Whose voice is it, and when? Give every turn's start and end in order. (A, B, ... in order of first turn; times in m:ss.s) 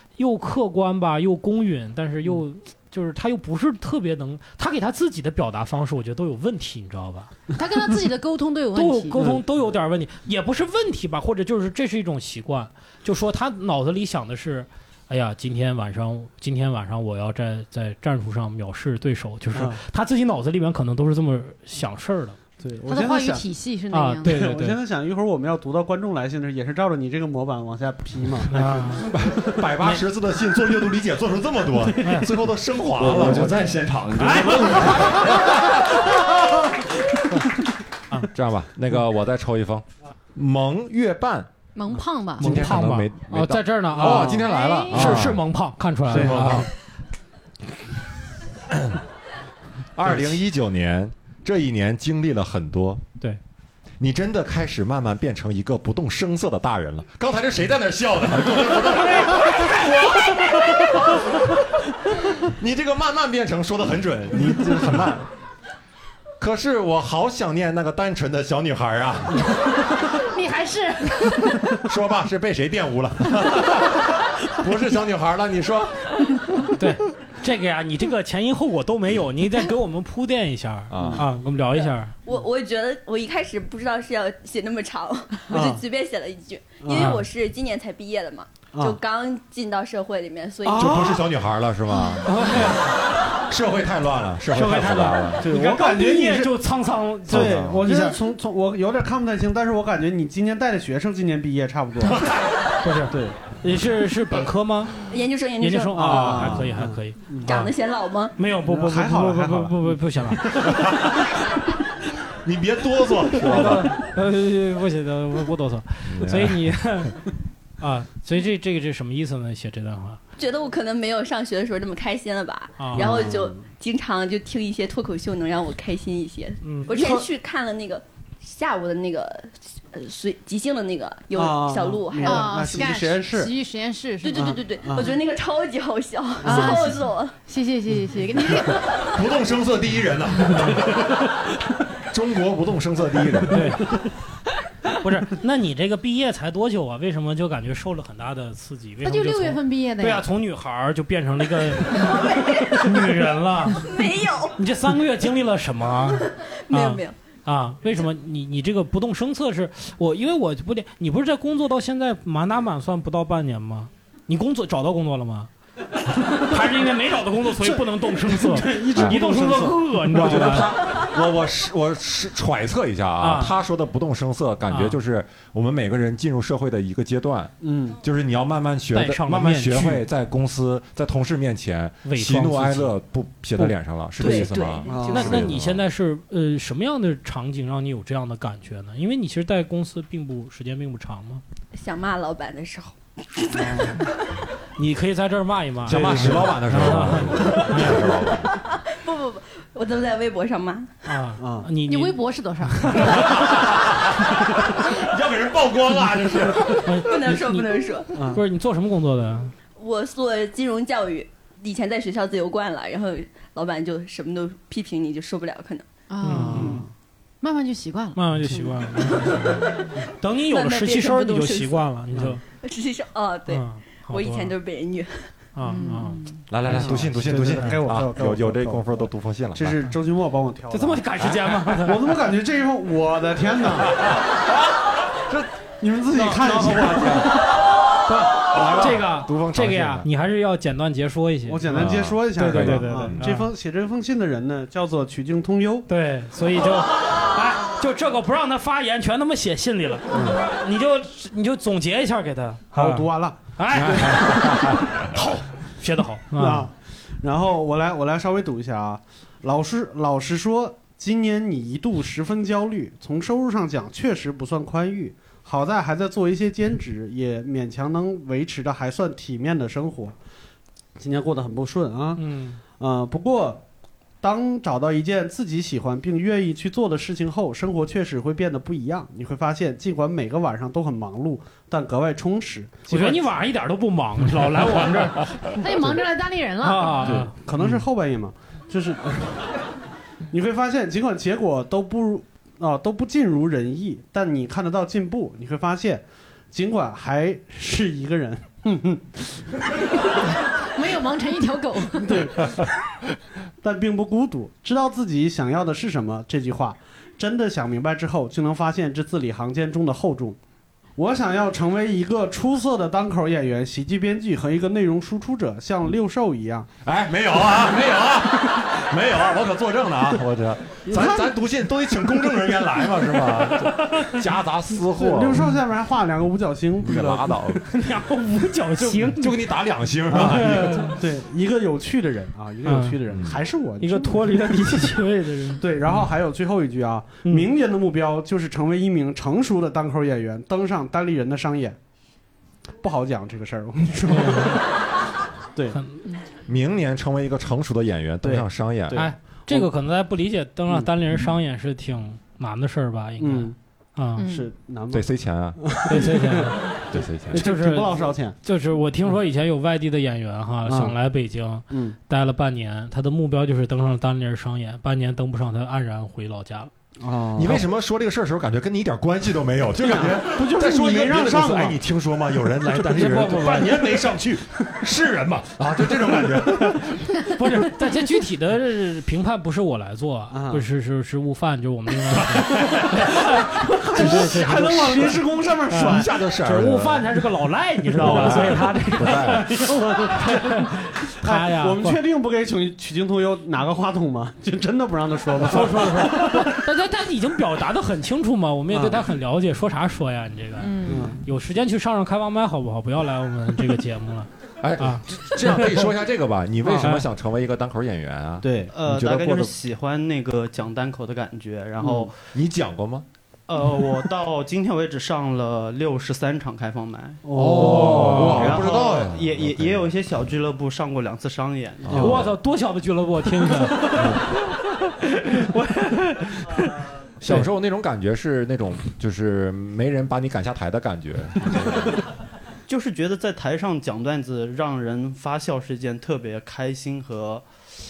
0:00.2-0:07.3 A
0:07.6-0:09.3 B
0:08.7-0:22.4 A
0:19.5-0:19.8 C
0:22.6-0:23.4 C
0:22.9-0:24.4 B
0:23.9-0:24.8 A
0:24.3-0:29.0 C
0:28.5-0:29.1 A
0:29.1-0:33.6 D
0:32.0-0:32.4 A
0:33.0-0:35.0 E
0:34.2-0:35.5 A
0:34.4-0:35.8 D
0:38.3-0:41.5 D
0:41.8-0:42.8 B
0:42.4-0:46.7 A
0:42.4-0:45.4 D
0:44.0-0:44.4 C
0:44.5-0:45.2 B
0:46.1-0:46.7 D
0:46.1-0:46.6 C
0:50.0-0:53.0 D
0:54.0-1:01.5 D
1:02.1-1:05.3 D
1:06.4-1:09.5 D
1:10.1-1:11.6 B
1:11.8-1:16.0 D
1:16.8-1:22.1 A
1:20.9-1:21.2 D
1:21.0-1:21.2 C
1:22.2-1:31.1 F
1:25.5-1:25.8 C
1:26.8-1:27.2 C
1:27.0-1:27.2 A
1:28.7-1:29.0 C
1:30.7-1:31.1 C
1:30.8-1:32.8 D
1:32.2-1:32.9 A
1:33.5-1:35.4 D
1:34.5-1:38.2 A
1:35.4-1:36.6 C
1:37.3-1:42.2 C
1:37.3-1:37.9 D
1:42.8-1:47.7 A
1:43.1-1:43.5 C
1:45.0-1:46.6 F
1:45.9-1:47.6 C
1:47.4-1:48.4 F
1:48.4-1:51.1 A
1:48.7-1:50.7 C
1:50.7-1:51.1 D
1:52.4-1:54.0 D
1:53.4-1:57.3 A
1:56.1-1:57.1 D
1:57.8-2:00.2 A
2:00.4-2:12.6 F
2:02.8-2:03.2 A
2:03.0-2:03.6 C
2:06.6-2:06.9 A
2:06.9-2:07.3 C
2:11.3-2:13.5 C
2:12.2-2:14.6 B
2:14.2-2:17.4 F
2:14.8-2:15.2 C
2:16.4-2:19.1 B
2:19.1-2:21.2 D
2:22.1-2:23.8 D
2:23.5-2:24.0 A
2:24.9-2:33.9 A
2:29.0-2:30.3 B
2:32.0-2:32.9 F
2:33.7-2:34.6 F
2:34.6-2:45.5 A
2:36.2-2:37.2 F
2:46.3-2:50.8 A
2:47.6-2:50.4 C
2:50.1-3:05.8 D
2:53.2-2:53.6 A
2:54.7-2:55.0 A
2:57.6-2:58.0 C
2:58.9-3:00.1 A
3:02.0-3:03.0 A
3:04.2-3:05.1 F
3:04.9-3:05.4 C
3:05.1-3:11.4 A
3:11.7-3:14.0 F
3:13.6-3:14.0 C
3:14.8-3:18.1 A
3:15.9-3:18.5 D
3:15.9-3:16.6 C
3:18.9-3:20.9 F
3:21.1-3:23.3 A
3:21.4-3:21.7 C
3:21.8-3:23.2 B
3:23.0-3:26.9 D
3:26.8-3:29.5 A
3:27.0-3:28.1 F
3:28.1-3:28.4 C
3:29.8-3:35.9 F
3:36.1-3:36.8 B
3:36.2-3:36.8 A
3:36.4-3:36.9 C
3:37.4-3:38.4 B
3:38.2-3:42.4 A
3:39.2-3:41.9 F
3:42.6-3:45.3 F
3:43.5-3:44.5 A
3:45.6-3:46.2 A
3:45.6-3:46.4 B
3:46.5-3:49.8 D
3:46.7-3:51.1 C
3:47.4-3:47.8 A
3:50.7-3:52.2 A
3:51.2-3:51.6 D
3:51.7-3:54.0 C
3:55.8-3:57.6 C
3:56.2-3:57.4 D
3:56.5-3:57.3 A
3:58.1-4:03.5 A
3:58.5-4:00.1 D
4:01.5-4:05.9 C
4:01.7-4:03.3 D
4:05.9-4:16.7 A
4:10.1-4:10.4 C
4:12.7-4:13.6 C
4:13.8-4:15.0 D
4:16.3-4:30.2 C
4:31.0-4:32.2 C
4:32.2-4:32.6 A
4:32.8-4:33.6 C
4:34.2-4:43.3 C
4:42.9-4:45.4 A
4:45.6-4:47.2 B
4:46.6-4:47.3 A
4:47.0-4:49.5 C
4:50.3-4:59.4 C
5:00.6-5:02.3 B
5:02.0-5:02.6 C
5:03.6-5:10.4 C
5:11.0-5:16.7 C
5:16.8-5:25.6 D
5:20.9-5:21.3 C
5:24.9-5:27.4 C
5:26.8-5:27.6 D
5:27.7-5:29.4 A
5:28.8-5:31.0 D
5:30.1-5:34.9 C
5:30.1-5:31.0 A
5:32.6-5:33.0 A
5:33.8-5:35.7 A
5:35.6-5:41.8 C
5:37.2-5:37.5 A
5:42.8-5:44.6 C
5:44.1-5:44.6 A
5:45.6-5:45.8 C
5:45.8-5:46.0 A
5:46.5-5:49.0 D
5:48.2-5:49.7 C
5:48.9-5:54.2 A
5:53.2-5:53.6 C
5:54.2-5:54.5 B
5:54.2-5:58.4 C
5:54.9-5:55.8 D
5:55.9-6:06.7 A
5:56.9-5:57.4 D
6:00.7-6:01.0 C
6:01.7-6:02.0 C
6:07.0-6:07.6 C
6:07.4-6:17.1 D
6:09.8-6:11.8 C
6:12.7-6:14.0 A
6:16.6-6:32.0 A
6:20.3-6:20.7 C
6:22.3-6:23.1 D
6:23.7-6:26.1 C
6:24.0-6:24.4 D
6:25.8-6:27.1 D
6:28.0-6:29.6 D
6:28.0-6:28.5 C
6:29.7-6:30.6 C
6:31.2-6:36.6 C
6:35.5-6:45.8 A
6:38.7-6:39.0 C
6:40.6-6:41.1 B
6:40.9-6:41.2 C
6:44.6-6:49.6 D
6:46.8-6:47.1 A
6:48.4-6:48.7 C
6:48.7-6:52.1 G
6:51.8-6:52.1 C
6:52.3-6:53.1 D
6:53.5-6:57.2 G
6:57.2-6:58.8 C
6:57.4-6:59.9 D
6:57.6-6:58.6 A
6:58.4-7:02.1 G
7:01.9-7:02.3 D
7:01.9-7:02.2 C
7:02.0-7:04.2 A
7:05.0-7:06.7 A
7:07.2-7:12.0 D
7:12.7-7:17.5 G